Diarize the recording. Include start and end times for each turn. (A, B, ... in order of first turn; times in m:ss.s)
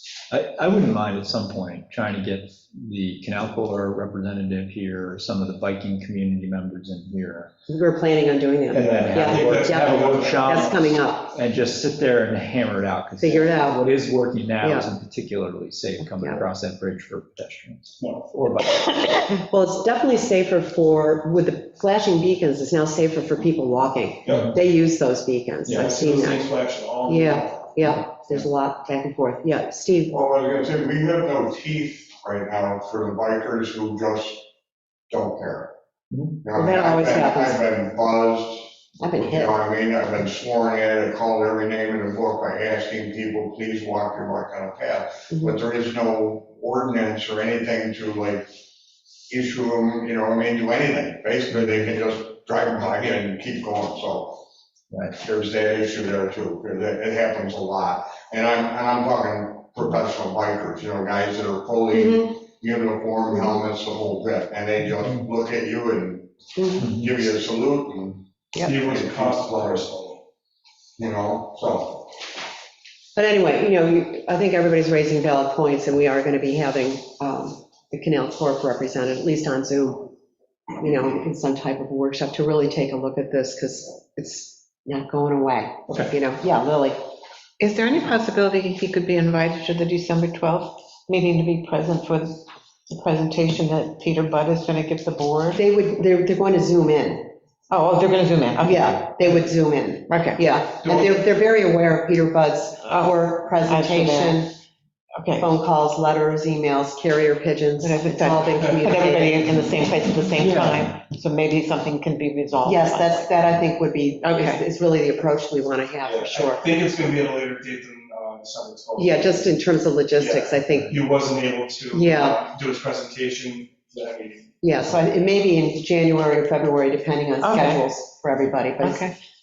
0:00.3-0:07.5 A
0:07.7-0:11.4 B
0:08.7-0:18.9 A
0:08.7-0:10.7 C
0:13.2-0:13.8 B
0:14.6-0:14.9 B
0:16.0-0:16.4 B
0:18.0-0:18.3 C
0:19.5-0:26.4 B
0:24.2-0:24.5 C
0:25.7-0:27.8 C
0:27.1-0:30.2 B
0:30.1-0:34.4 D
0:35.1-0:35.7 D
0:36.1-0:36.4 A
0:36.4-0:48.5 D
0:36.6-0:37.6 B
0:39.0-0:39.6 B
0:45.3-0:45.6 B
0:49.3-0:54.4 D
0:51.6-0:51.9 A
0:55.1-1:09.9 D
1:01.9-1:02.3 B
1:06.6-1:06.9 B
1:06.8-1:07.1 A
1:08.6-1:10.2 C
1:11.0-1:12.1 D
1:13.2-1:20.2 B
1:20.8-1:27.0 B
1:27.6-1:35.6 E
1:35.6-1:37.3 B
1:37.7-1:39.0 E
1:38.6-1:44.5 B
1:40.1-1:40.4 E
1:40.8-1:41.2 C
1:42.8-1:44.4 E
1:45.2-1:45.5 E
1:45.4-1:49.5 B
1:47.8-1:53.3 E
1:48.6-1:48.8 C
1:50.4-1:50.9 A
1:52.6-1:56.7 B
1:54.2-1:54.6 E
1:56.0-1:59.6 C
1:59.0-2:01.0 B
2:00.2-2:04.6 C
2:01.9-2:02.4 B
2:04.6-2:09.1 B
2:07.4-2:07.8 E
2:08.8-2:09.1 E